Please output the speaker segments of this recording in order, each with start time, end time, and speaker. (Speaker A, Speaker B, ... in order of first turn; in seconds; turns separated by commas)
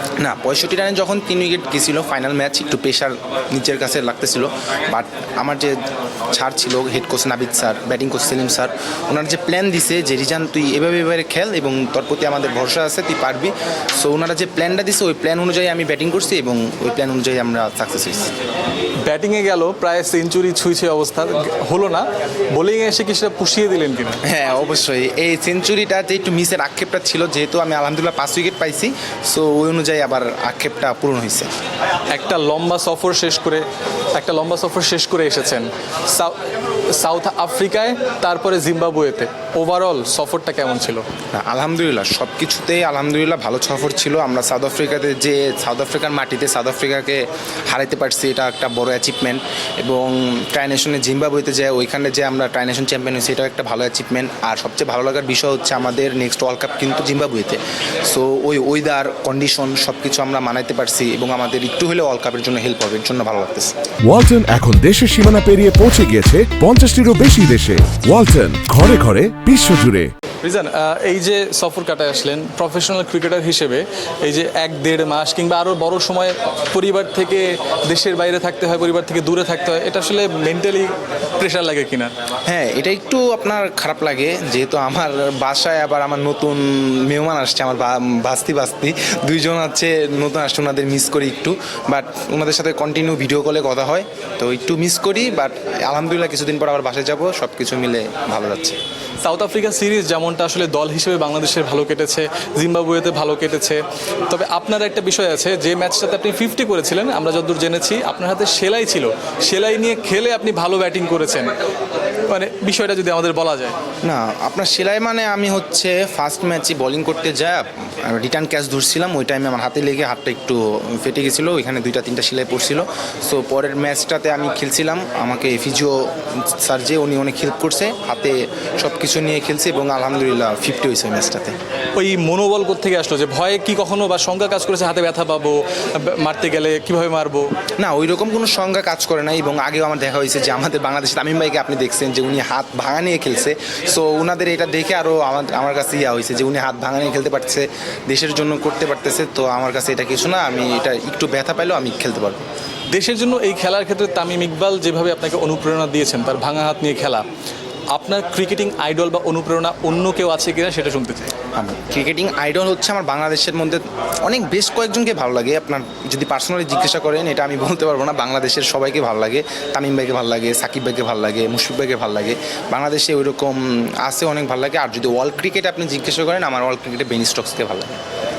Speaker A: 0.2-18.3, Speaker B: 19.0-24.2, Speaker A: 24.2-31.5, Speaker B: 32.1-36.4, Speaker B: 36.9-41.0, Speaker A: 41.3-63.8, Speaker C: 64.0-70.1, Speaker B: 70.4-82.1, Speaker A: 82.5-98.8, Speaker B: 99.2-111.6, Speaker B: 112.3-113.8, Speaker A: 114.0-131.6, Speaker B: 131.9-137.5, Speaker A: 137.8-152.4, Speaker B: 152.9-157.2, Speaker B: 157.9-161.3, Speaker A: 161.5-178.0